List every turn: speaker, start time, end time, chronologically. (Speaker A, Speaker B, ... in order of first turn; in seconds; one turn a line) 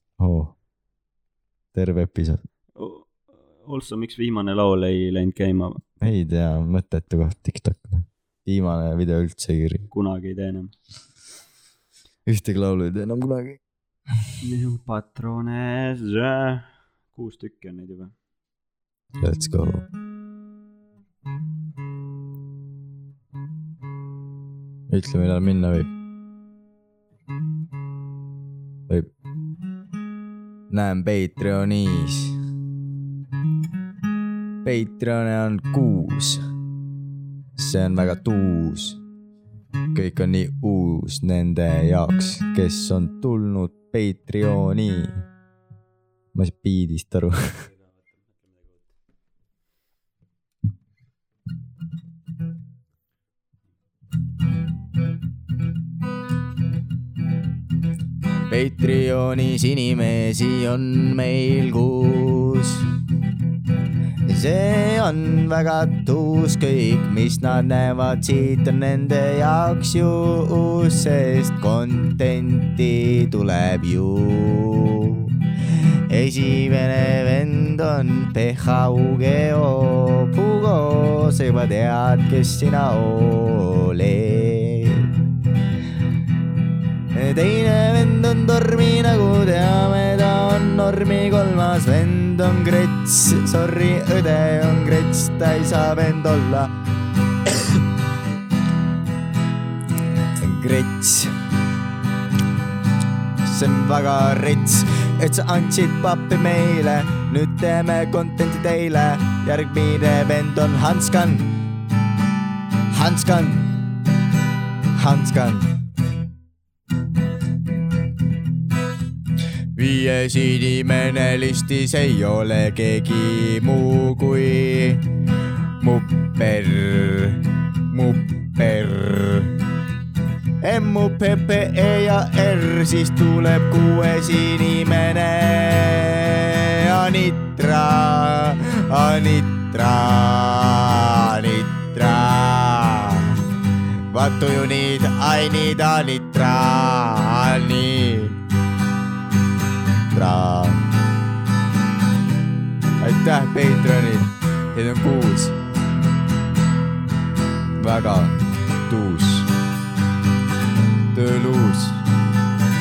Speaker A: 0.2-0.5
Speaker A: 1.7-2.4
Speaker B: 2.8-6.0
Speaker A: 6.0-9.9
Speaker B: 9.9-10.7
Speaker A: 12.3-13.6
Speaker B: 14.4-18.1
Speaker A: 19.2-19.9
Speaker A: 24.9-25.9
Speaker A: 30.7-32.4
Speaker A: 34.6-36.4
Speaker A: 37.6-39.0
Speaker A: 39.9-45.2
Speaker A: 46.3-47.7
Speaker A: 58.5-62.9
Speaker A: 64.3-85.1
Speaker A: 87.1-96.7
Speaker A: 100.4-101.3
Speaker A: 103.4-111.5
Speaker A: 112.9-113.8
Speaker A: 115.0-115.8
Speaker A: 119.8-125.1
Speaker A: 125.8-129.6
Speaker A: 130.6-143.4
Speaker A: 144.1-148.4
Speaker A: 150.1-150.9
Speaker A: 153.0-155.6
Speaker A: 157.8-159.5
Speaker A: 161.1-162.0